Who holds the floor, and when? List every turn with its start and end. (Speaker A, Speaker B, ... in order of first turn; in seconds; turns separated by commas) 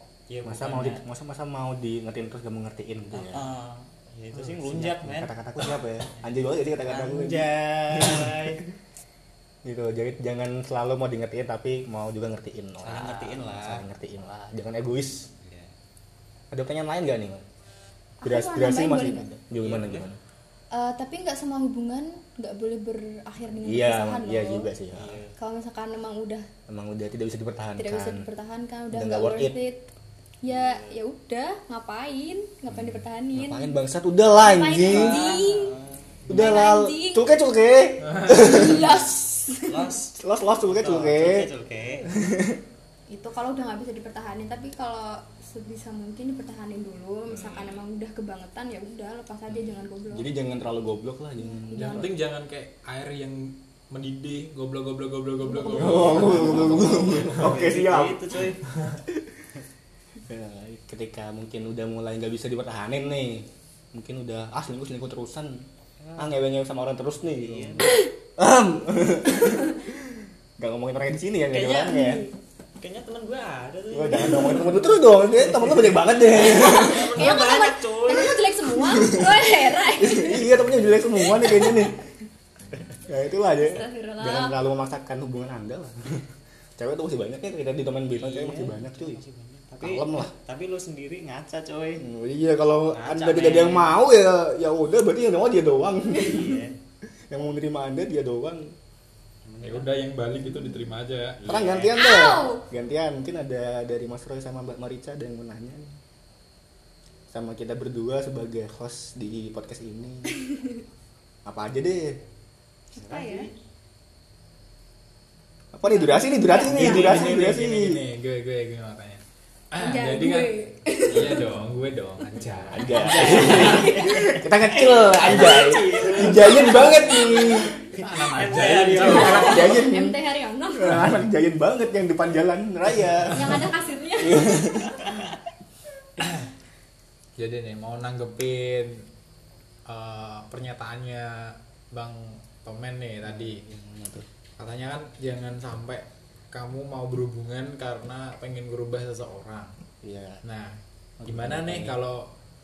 Speaker A: 0.3-1.0, Speaker B: 0.4-3.5, Speaker A: 3.1-8.6, Speaker B: 4.3-8.4, Speaker B: 9.6-15.3, Speaker A: 12.8-13.8, Speaker A: 15.4-15.7, Speaker B: 16.5-17.5, Speaker C: 18.2-19.2, Speaker B: 18.2-20.2, Speaker A: 19.6-20.1, Speaker C: 20.7-24.7, Speaker B: 23.6-25.2, Speaker A: 24.9-25.4, Speaker C: 25.4-26.5, Speaker B: 26.7-28.3, Speaker C: 27.8-29.9, Speaker B: 28.9-29.6, Speaker C: 30.4-33.7, Speaker A: 30.5-30.9, Speaker B: 32.7-35.2, Speaker C: 34.4-35.7, Speaker A: 34.8-36.2, Speaker B: 36.3-39.0, Speaker C: 36.3-37.2, Speaker D: 38.1-38.4, Speaker C: 38.3-39.9, Speaker A: 39.6-42.1, Speaker B: 40.2-41.5, Speaker B: 42.1-42.6, Speaker C: 43.1-50.3, Speaker B: 47.3-47.8, Speaker B: 49.5-52.1, Speaker C: 51.4-52.1, Speaker D: 51.7-57.4, Speaker C: 55.4-57.1, Speaker B: 55.7-58.5, Speaker A: 56.2-58.6, Speaker B: 59.1-59.5, Speaker B: 60.2-65.6, Speaker A: 66.0-66.4, Speaker B: 66.2-72.2, Speaker A: 67.2-68.0, Speaker A: 71.5-72.1, Speaker C: 71.8-72.3, Speaker A: 72.8-78.5, Speaker B: 73.9-77.3, Speaker C: 76.5-80.5, Speaker B: 78.8-82.0, Speaker C: 81.4-81.7, Speaker B: 83.0-89.2, Speaker C: 83.6-84.5, Speaker A: 88.1-92.0, Speaker B: 89.8-90.3, Speaker B: 92.0-96.6, Speaker A: 92.9-94.0, Speaker A: 96.1-96.8, Speaker B: 97.3-98.7, Speaker A: 99.4-100.0, Speaker D: 99.6-101.4, Speaker A: 101.4-102.0, Speaker B: 101.4-106.0, Speaker C: 101.9-102.6, Speaker B: 107.3-110.4, Speaker C: 110.4-110.8, Speaker B: 111.5-112.2, Speaker A: 112.9-113.5, Speaker C: 113.0-113.5, Speaker B: 115.7-118.0, Speaker C: 115.9-117.1, Speaker D: 116.5-124.0, Speaker C: 119.8-121.5, Speaker A: 122.4-129.8, Speaker B: 122.7-127.8, Speaker C: 123.2-124.4, Speaker C: 126.5-127.4, Speaker D: 128.0-129.5, Speaker B: 128.9-130.2, Speaker C: 129.0-131.1, Speaker B: 130.8-135.0, Speaker C: 133.3-134.8, Speaker A: 134.9-135.3, Speaker D: 137.4-139.0, Speaker D: 139.9-143.6, Speaker B: 143.2-144.3, Speaker D: 144.6-149.8, Speaker B: 150.0-150.4, Speaker D: 150.4-152.3, Speaker B: 151.2-152.0